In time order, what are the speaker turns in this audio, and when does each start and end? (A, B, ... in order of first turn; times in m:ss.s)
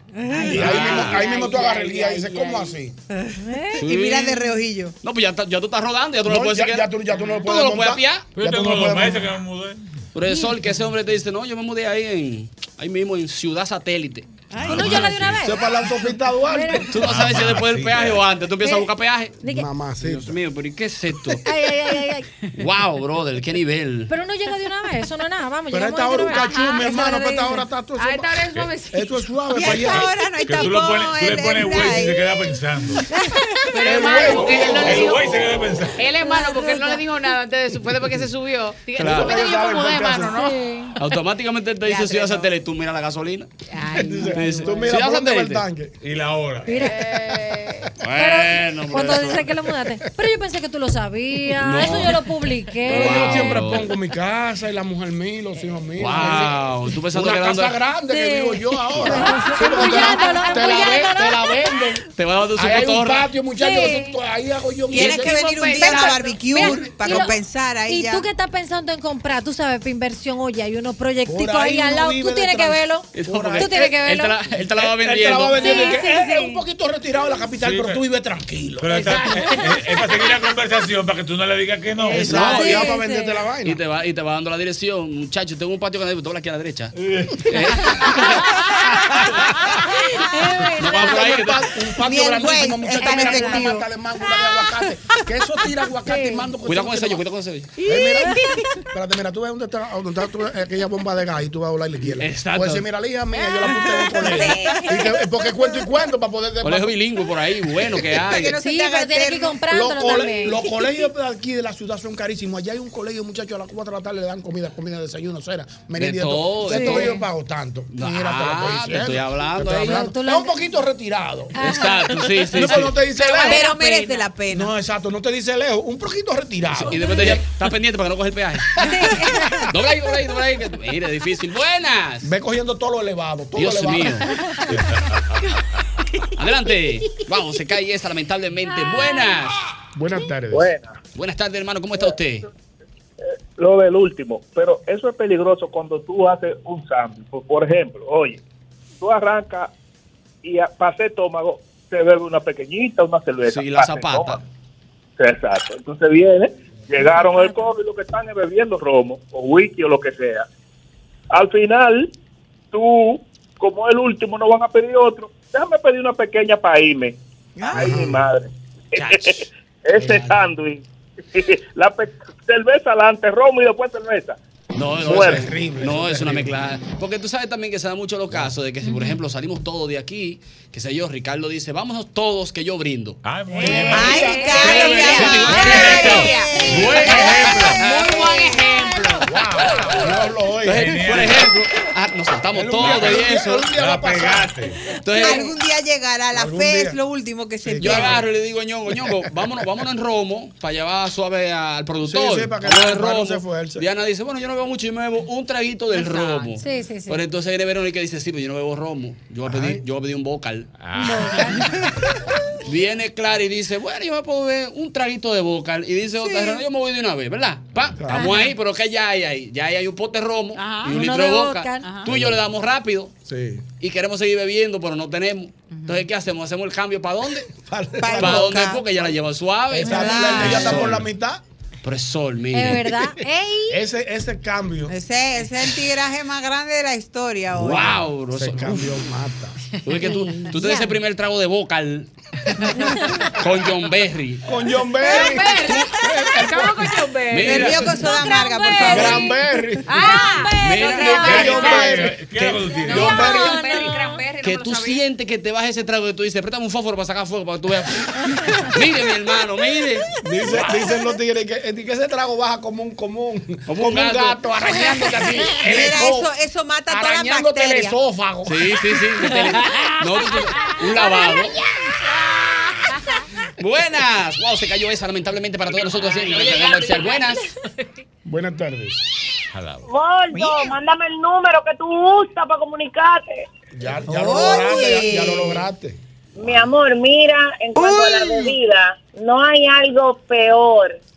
0:00.3-0:02.7 A
0:00.4-0:03.0 B
0:00.5-0:01.4 C
0:03.1-0:04.9 D
0:03.7-0:06.9 C
0:06.2-0:09.3 B
0:07.1-0:07.4 A
0:07.4-0:08.2 C
0:08.4-0:09.9 E
0:10.1-0:14.3 C
0:10.2-0:10.5 F
0:14.6-0:15.4 E
0:14.6-0:15.9 F
0:15.4-0:17.0 B
0:16.4-0:16.9 F
0:16.9-0:19.4 C
0:17.0-0:18.2 E
0:18.6-0:18.9 F
0:19.4-0:19.7 F
0:19.4-0:20.4 B
0:20.0-0:21.4 C
0:21.4-0:22.3 F
0:22.6-0:24.1 C
0:24.1-0:27.6 F
0:25.7-0:30.1 B
0:28.0-0:29.2 A
0:29.5-0:32.3 D
0:29.6-0:33.0 E
0:33.1-0:34.0 F
0:33.7-0:40.6 A
0:33.8-0:35.2 B
0:34.3-0:36.1 E
0:36.1-0:37.2 F
0:39.0-0:39.4 C
0:39.0-0:40.6 B
0:40.3-0:40.9 F
0:41.0-0:43.5 C
0:41.8-0:42.5 A
0:43.7-0:44.9 A
0:43.9-0:45.9 B
0:44.2-0:45.6 C
0:46.0-0:46.8 E
0:46.6-0:47.1 F
0:46.8-0:47.8 A
0:47.5-0:47.8 B
0:48.0-0:49.4 C
0:48.1-0:53.6 F
0:51.6-0:52.2 C
0:52.8-0:53.9 C
0:52.8-1:06.2 B
0:56.0-0:57.8 C
0:58.1-1:01.7 F
0:59.9-1:00.8 A
1:02.2-1:03.2 C
1:03.6-1:04.2 F
1:04.9-1:08.3 D
1:05.0-1:06.6 A
1:06.0-1:14.4 F
1:11.2-1:14.0 B
1:13.1-1:15.9 C
1:14.6-1:19.4 B
1:15.6-1:16.6 F
1:17.6-1:18.0 E
1:18.8-1:22.8 E
1:19.0-1:19.7 F
1:22.0-1:23.8 B
1:22.1-1:23.0 C
1:22.1-1:23.4 F
1:23.6-1:26.9 C
1:27.0-1:27.4 E
1:27.4-1:28.5 C
1:28.5-1:28.9 F
1:28.9-1:29.4 B
1:30.1-1:31.1 F
1:30.8-1:31.6 C
1:30.8-1:37.2 B
1:32.0-1:33.9 D
1:33.0-1:33.6 F
1:36.1-1:36.5 F
1:36.6-1:37.7 C
1:37.8-1:47.0 B
1:37.9-1:38.5 F
1:42.2-1:42.8 C
1:44.2-1:45.0 D
1:44.2-1:44.8 F
1:46.6-1:48.6 C
1:48.2-1:49.6 D
1:48.6-1:50.7 F
1:49.7-2:01.6 B
1:56.0-1:57.2 C
1:56.7-1:57.2 F
1:57.9-2:00.1 C
1:59.7-2:00.6 F
2:01.6-2:02.2 F
2:01.6-2:02.9 C
2:02.5-2:03.7 B
2:03.1-2:04.7 D
2:03.3-2:04.2 A
2:04.5-2:07.4 B
2:06.7-2:08.9 C
2:08.8-2:09.7 F
2:09.7-2:12.3 C
2:12.2-2:14.3 B
2:13.6-2:14.3 C
2:14.7-2:15.4 E
2:16.4-2:19.6 C
2:18.8-2:19.4 F
2:19.9-2:20.7 B
2:20.5-2:21.0 G
2:21.1-2:22.4 C
2:23.5-2:28.4 G
2:29.0-2:29.7 G
2:30.4-2:34.4 G
2:33.4-2:34.4 C
2:35.2-2:40.4 G
2:37.0-2:37.7 F
2:41.3-2:42.1 G
2:42.7-2:54.4 G
2:47.6-2:48.0 D
2:47.7-2:48.2 B
2:48.9-2:49.4 C
2:54.7-3:03.2 C
2:55.0-2:55.4 G
2:55.0-2:56.6 B
3:03.2-3:04.5 E
3:03.5-3:09.3 A
3:03.6-3:05.1 B
3:03.8-3:07.8 D
3:04.5-3:08.2 C
3:05.2-3:07.8 E
3:09.2-3:11.4 B
3:10.6-3:13.7 C
3:10.7-3:11.4 E
3:12.5-3:14.6 B
3:12.8-3:14.8 E
3:15.0-3:15.5 C
3:15.1-3:18.2 D
3:16.3-3:17.0 B
3:17.6-3:18.2 B
3:17.8-3:30.7 C
3:22.0-3:23.8 B
3:25.9-3:26.5 A
3:26.6-3:27.2 F
3:29.4-3:29.8 B
3:30.8-3:31.7 E
3:31.0-3:31.7 F
3:32.6-3:43.1 C
3:38.0-3:38.3 B
3:38.1-3:38.5 F
3:40.5-3:41.0 A
3:40.9-3:42.0 F
3:41.8-3:42.1 A
3:42.1-3:42.4 B
3:43.2-3:43.6 B
3:43.8-3:47.5 C
3:45.7-3:46.0 A
3:47.5-3:48.6 B
3:48.0-3:48.8 D
3:48.1-3:51.0 C
3:49.7-3:51.4 B
3:49.9-3:50.9 D
3:51.8-3:52.9 C
3:52.5-3:53.8 F
3:53.7-3:54.9 B
3:54.9-3:58.0 D
3:57.5-3:58.9 C
3:58.3-3:59.6 B
3:59.8-4:02.1 C
4:00.2-4:00.9 F
4:03.3-4:04.4 C
4:04.4-4:06.9 B
4:05.0-4:07.8 A
4:05.1-4:06.0 C
4:07.3-4:07.9 C
4:07.4-4:09.3 D
4:07.8-4:12.0 F
4:08.8-4:10.3 B
4:09.8-4:11.9 A
4:10.6-4:12.6 C
4:11.2-4:13.6 B
4:11.2-4:13.1 E
4:12.8-4:15.0 A
4:12.9-4:14.2 F
4:14.4-4:20.8 C
4:20.2-4:26.3 B
4:23.7-4:24.5 C
4:25.6-4:28.0 D
4:26.9-4:28.8 B
4:28.4-4:31.6 C
4:32.9-4:33.2 A
4:33.6-4:37.4 C
4:35.9-4:37.8 A
4:38.2-4:39.0 B
4:39.5-4:39.8 E
4:39.8-4:43.4 H
4:43.7-4:46.0 B
4:44.1-4:45.6 D
4:46.4-4:51.0 H